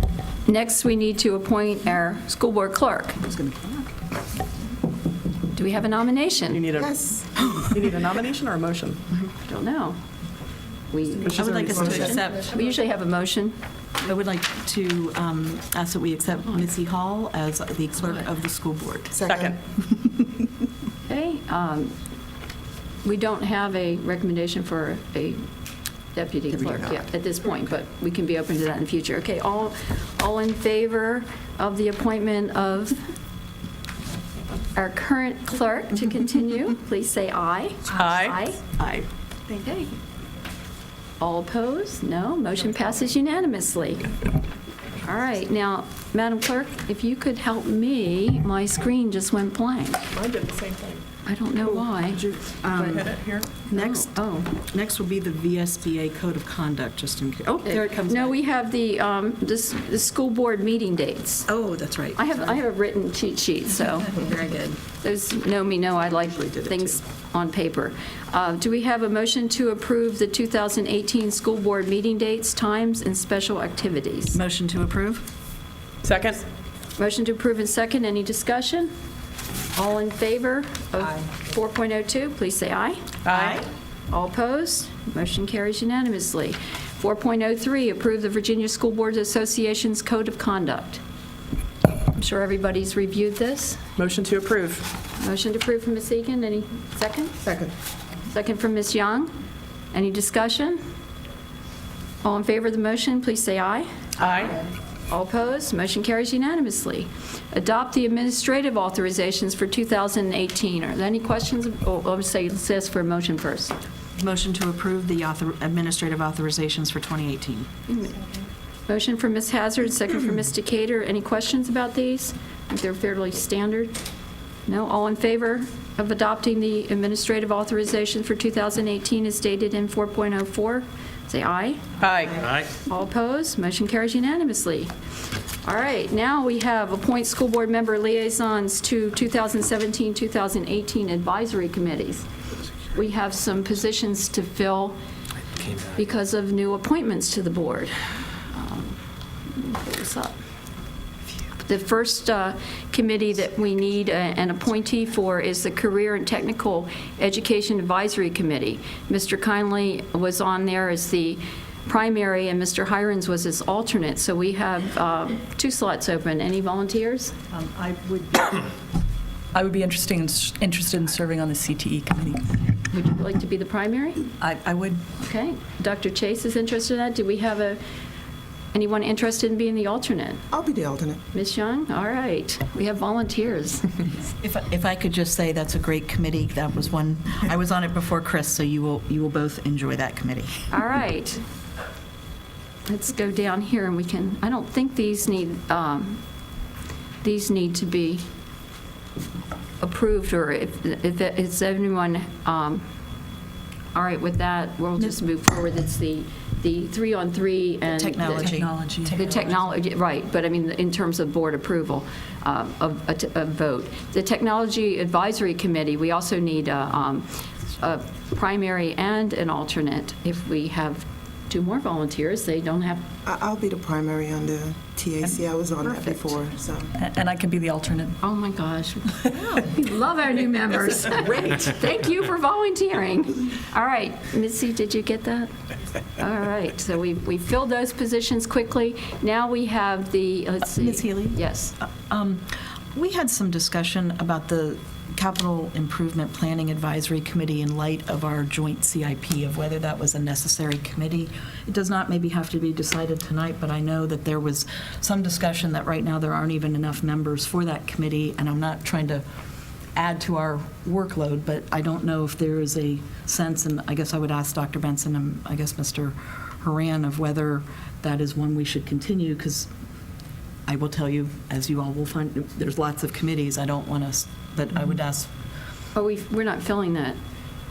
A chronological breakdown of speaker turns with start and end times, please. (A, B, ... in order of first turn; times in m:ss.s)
0:00.4-0:03.4 A
0:03.5-0:03.8 B
0:05.5-0:06.6 A
0:06.5-0:09.0 C
0:06.8-0:07.5 D
0:09.2-0:10.0 A
0:10.9-0:13.6 A
0:11.2-0:12.2 C
0:11.4-0:12.5 B
0:11.5-0:12.0 D
0:14.0-0:19.2 B
0:19.1-0:19.6 D
0:19.3-0:19.6 C
0:21.0-0:22.0 A
0:23.0-0:25.4 A
0:26.1-0:33.0 A
0:34.7-0:38.6 A
0:37.9-0:39.1 C
0:39.5-0:39.9 A
0:41.2-0:44.1 A
0:45.0-0:50.1 A
0:50.1-0:51.1 C
0:51.2-0:52.2 A
0:52.0-0:58.4 B
0:52.9-0:53.5 C
0:53.7-0:54.6 A
0:57.6-1:01.5 A
1:01.5-1:02.6 B
1:02.2-1:04.3 A
1:04.1-1:04.8 B
1:04.8-1:14.4 A
1:06.3-1:07.0 B
1:14.3-1:15.2 B
1:16.0-1:16.4 C
1:17.0-1:18.9 A
1:19.8-1:23.1 A
1:23.2-1:23.6 C
1:23.3-1:23.7 B
1:24.1-1:31.0 A
1:32.1-1:33.9 A
1:34.0-1:34.9 C
1:35.2-1:37.4 A
1:37.4-1:37.7 D
1:38.3-1:39.3 A
1:39.9-1:40.8 A
1:42.2-1:43.9 A
1:44.2-1:44.6 C
1:45.1-1:53.8 A
1:54.2-1:57.7 B
1:57.9-1:58.3 A
1:58.9-2:03.9 A
2:04.7-2:11.8 A
2:12.0-2:12.6 C
2:12.9-2:14.9 A
2:15.6-2:22.2 A
2:22.9-2:25.0 A
2:25.8-2:30.4 A
2:31.6-2:47.4 A
2:47.5-2:48.7 E
2:49.5-2:52.6 E
2:52.9-2:54.3 A
2:54.4-2:55.0 E
2:55.2-2:57.8 A
2:58.7-3:00.4 A
3:00.5-3:01.2 D
3:01.3-3:04.1 A
3:04.4-3:10.7 B
3:10.7-3:11.4 A
3:12.9-3:16.2 A
3:17.2-3:18.2 A
3:19.8-3:22.8 A
3:23.9-3:28.6 A
3:28.0-3:29.3 B
3:28.4-3:29.6 E
3:29.2-3:43.1 A
3:43.2-3:46.9 D
3:47.0-3:48.2 E
3:48.2-3:55.5 A
3:56.2-4:01.8 A
4:00.7-4:19.2 B
4:20.0-4:29.7 B
4:30.7-4:35.3 B
4:36.0-4:37.2 A